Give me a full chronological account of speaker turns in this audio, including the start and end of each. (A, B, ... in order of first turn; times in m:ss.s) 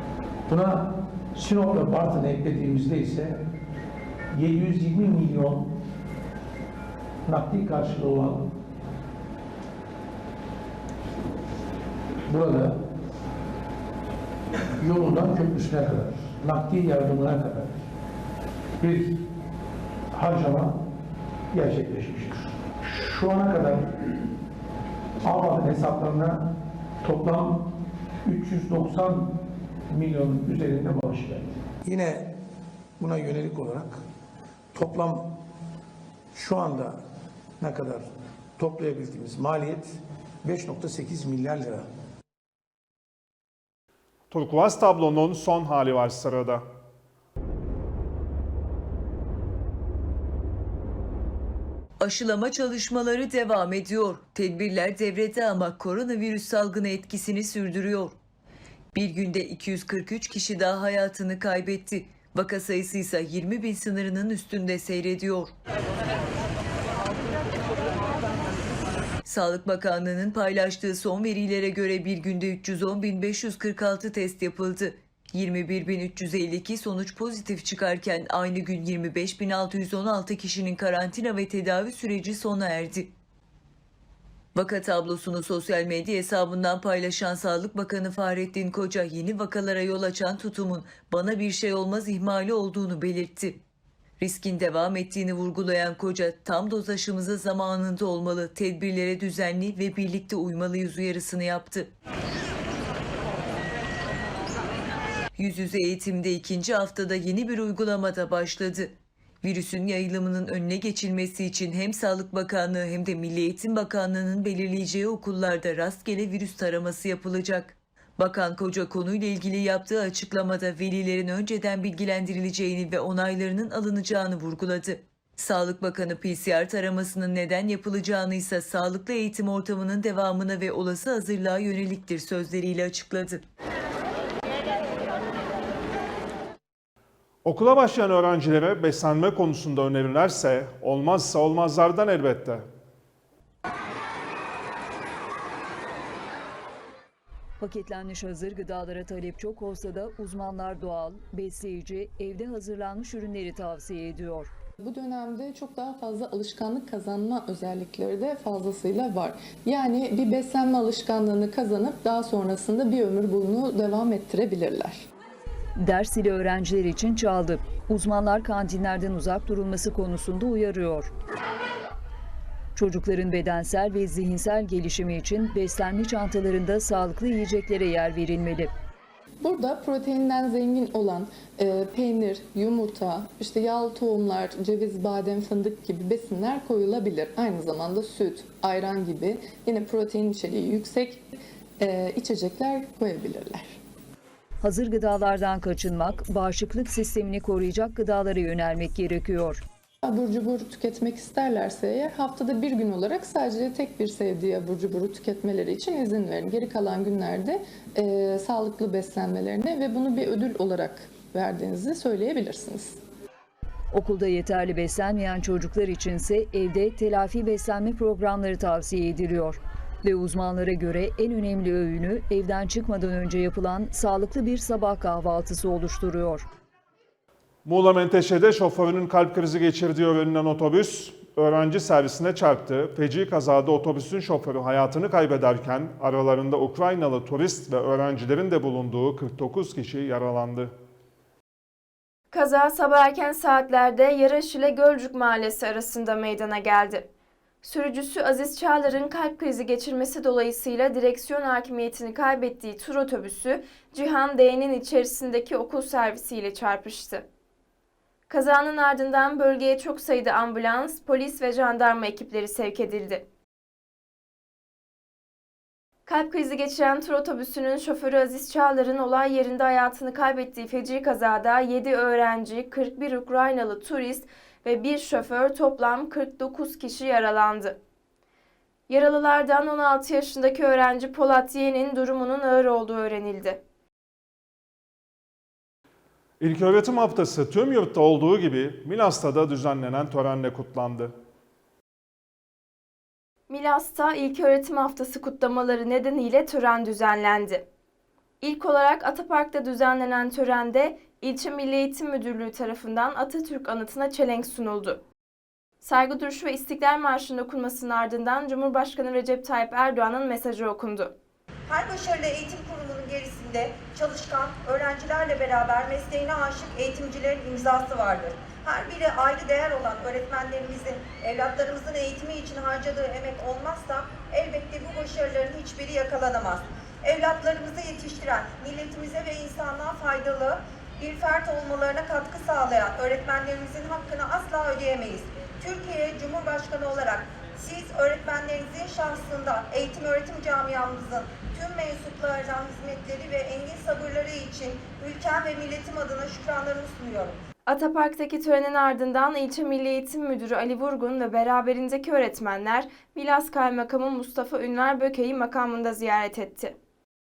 0:00.5-0:03.5 A
0:04.3-0:05.8 A
0:07.2-0:08.6 A
0:12.3-0:12.8 A
0:14.8-0:17.9 A
0:18.8-0:19.2 A
0:20.1-0:20.8 A
0:21.5-0:24.2 A
0:25.2-0:27.7 A
0:28.2-0:32.3 A
0:33.0-0:34.0 A
0:34.7-0:35.4 A
0:36.3-0:37.0 A
0:37.6-0:41.8 A
0:44.3-0:46.6 B
0:52.0-0:58.2 C
0:58.9-1:05.5 C
1:09.2-1:23.1 C
1:24.5-1:33.6 C
1:34.2-1:41.9 C
1:45.4-2:13.4 C
2:17.4-2:22.6 B
2:27.6-2:34.5 D
2:34.8-2:45.0 E
2:45.8-2:51.1 D
2:52.8-2:58.7 D
2:59.4-3:11.2 E
3:11.8-3:13.8 E
3:14.6-3:19.6 D
3:20.0-3:33.0 E
3:33.9-3:46.5 D
3:47.6-4:00.7 B
4:02.3-4:07.1 F
4:07.6-4:17.2 F
4:18.3-4:23.2 F
4:26.1-4:37.8 F
4:38.9-4:43.6 F
4:46.4-4:51.1 B
4:53.5-4:57.6 F
4:58.4-5:05.0 F
5:05.8-5:11.1 F
5:11.7-5:47.4 G
5:47.6-5:56.7 F